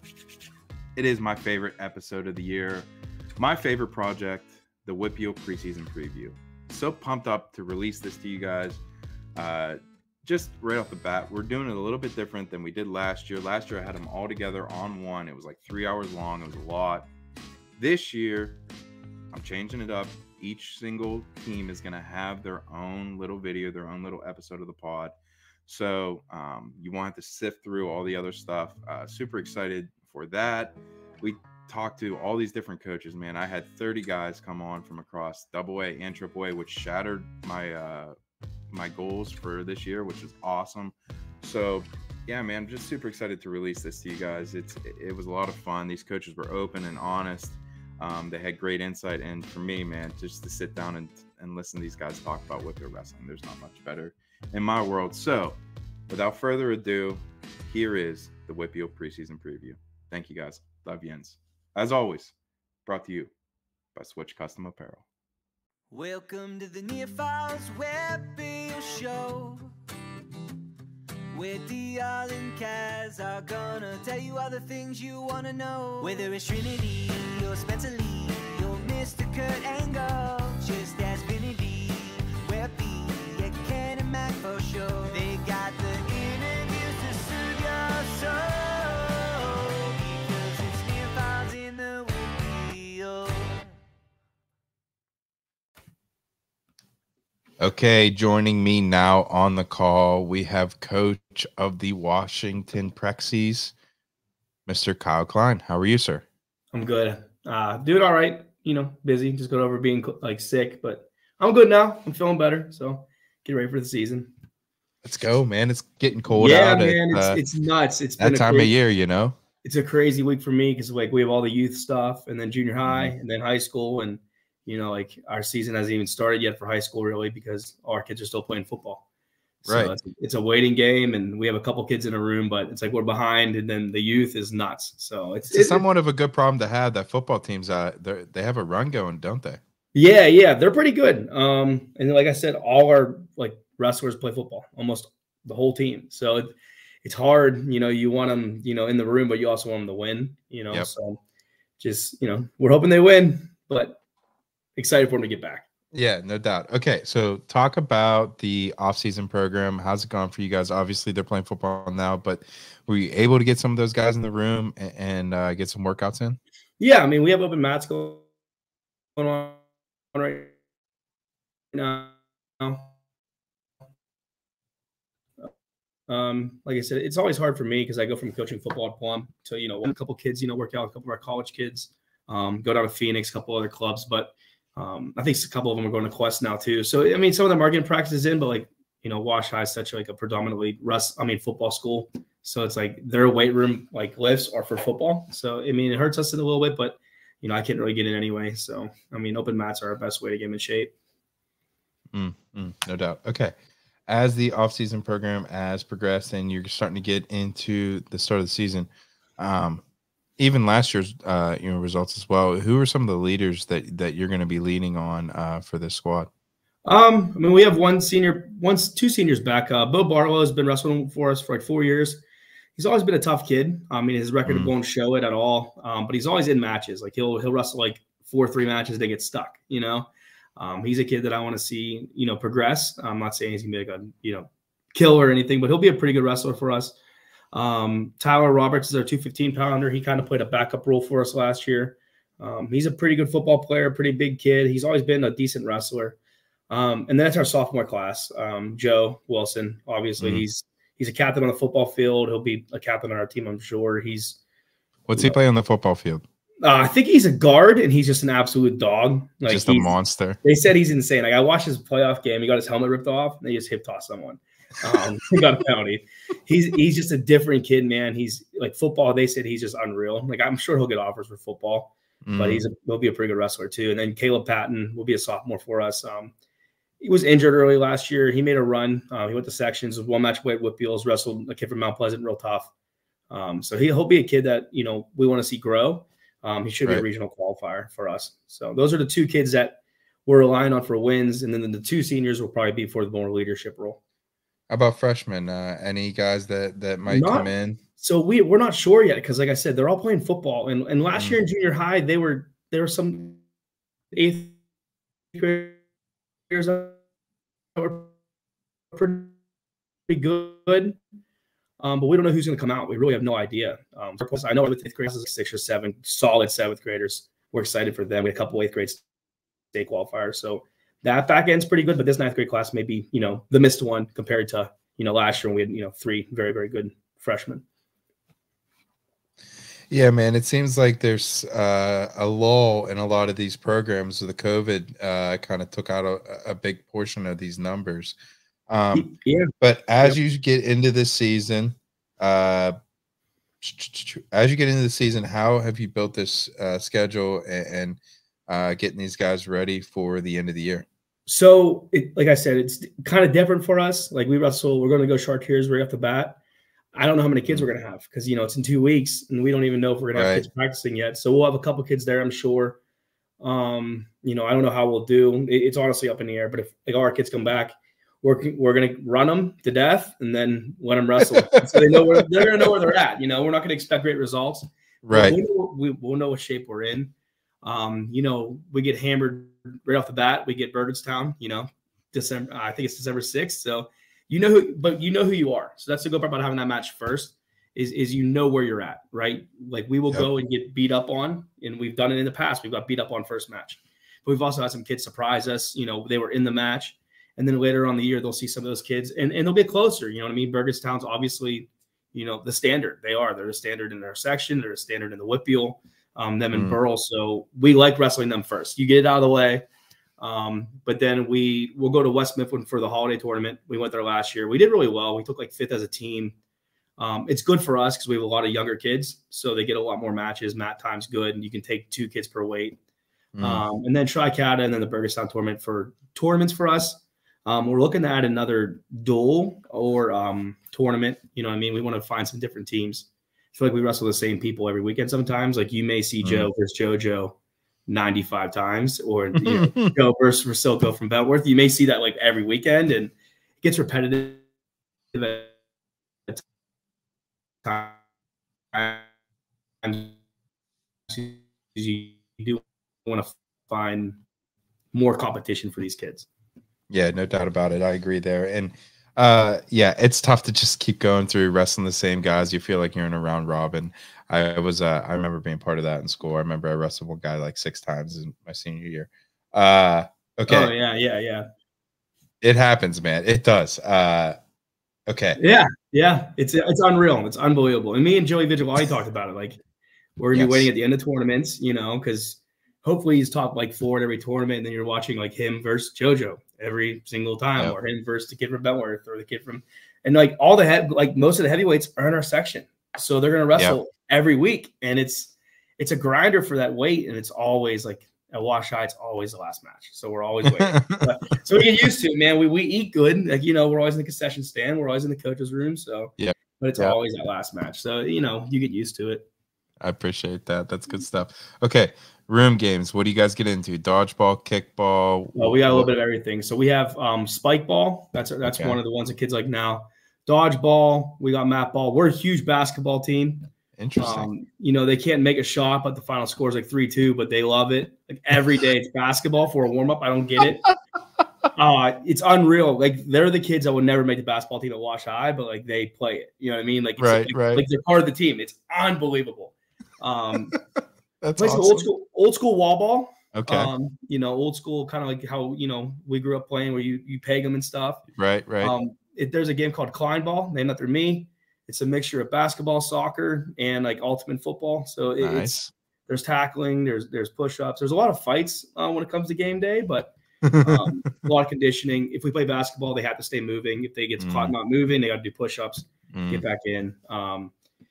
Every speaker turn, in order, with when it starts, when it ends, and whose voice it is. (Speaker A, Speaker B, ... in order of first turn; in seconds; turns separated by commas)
Speaker A: 0.9-8.8, Speaker A: 9.3-17.1, Speaker A: 17.8-18.6, Speaker A: 19.3-25.1, Speaker A: 25.7-38.1, Speaker A: 38.7-62.3, Speaker A: 62.9-63.3, Speaker A: 63.9-65.0, Speaker B: 65.9-69.6, Speaker B: 71.3-93.7, Speaker A: 97.6-103.7, Speaker A: 104.7-106.2, Speaker C: 106.7-114.3, Speaker A: 115.0-117.4, Speaker C: 116.3-118.7, Speaker A: 118.2-119.3, Speaker C: 119.6-129.0, Speaker A: 122.8-123.1, Speaker C: 129.6-135.8, Speaker A: 129.6-129.9, Speaker A: 135.5-139.6, Speaker C: 139.9-151.2, Speaker C: 151.8-154.0, Speaker C: 154.8-155.7, Speaker A: 155.9-166.4, Speaker C: 166.8-168.3, Speaker C: 169.2-169.6, Speaker C: 170.1-170.5, Speaker C: 171.7-172.9, Speaker C: 176.1-200.9, Speaker A: 202.1-203.5, Speaker A: 204.1-209.8, Speaker A: 210.4-216.3, Speaker C: 216.8-222.2, Speaker C: 222.7-236.9, Speaker A: 224.4-224.7, Speaker C: 237.5-246.2, Speaker C: 246.7-254.4, Speaker A: 250.2-250.4, Speaker A: 255.1-256.2, Speaker C: 256.6-276.3, Speaker A: 259.5-260.4, Speaker A: 272.2-272.6, Speaker C: 277.0-282.7, Speaker C: 283.3-294.0, Speaker A: 294.7-297.8, Speaker C: 297.1-303.4, Speaker C: 304.1-304.6, Speaker C: 305.3-305.8, Speaker C: 306.5-307.0, Speaker C: 307.8-308.1, Speaker C: 308.9-309.4, Speaker C: 310.1-311.0, Speaker C: 311.8-319.0, Speaker C: 319.7-327.6, Speaker A: 329.9-338.1, Speaker A: 338.7-342.7, Speaker C: 338.9-340.2, Speaker A: 343.6-350.9, Speaker C: 351.3-356.4, Speaker C: 356.9-362.8, Speaker A: 360.1-360.5, Speaker C: 363.4-409.6, Speaker A: 375.0-375.4, Speaker A: 406.5-406.8, Speaker C: 410.2-416.3, Speaker C: 417.0-422.8, Speaker A: 423.3-423.6, Speaker C: 423.4-437.4, Speaker A: 436.2-436.5, Speaker C: 437.9-444.4, Speaker A: 439.4-439.9, Speaker C: 445.1-445.6, Speaker C: 447.6-448.0, Speaker C: 448.7-449.1, Speaker C: 449.8-450.2, Speaker C: 451.1-454.2, Speaker C: 454.9-456.3, Speaker A: 456.9-470.7, Speaker C: 470.5-471.5, Speaker A: 472.4-474.3, Speaker A: 475.1-475.4, Speaker C: 475.4-479.6, Speaker C: 480.2-509.3, Speaker A: 480.3-480.7, Speaker A: 500.6-501.0, Speaker A: 506.2-507.0, Speaker A: 509.8-515.9, Speaker C: 515.4-530.7, Speaker A: 518.5-518.8, Speaker A: 523.8-524.3, Speaker C: 531.5-540.5, Speaker A: 537.0-537.6, Speaker A: 541.2-541.9, Speaker C: 541.4-548.0, Speaker A: 543.3-543.7, Speaker A: 548.1-548.7, Speaker C: 548.6-555.5, Speaker A: 555.2-555.7, Speaker C: 556.1-567.5, Speaker A: 560.4-560.8, Speaker A: 564.2-564.5, Speaker A: 566.1-566.4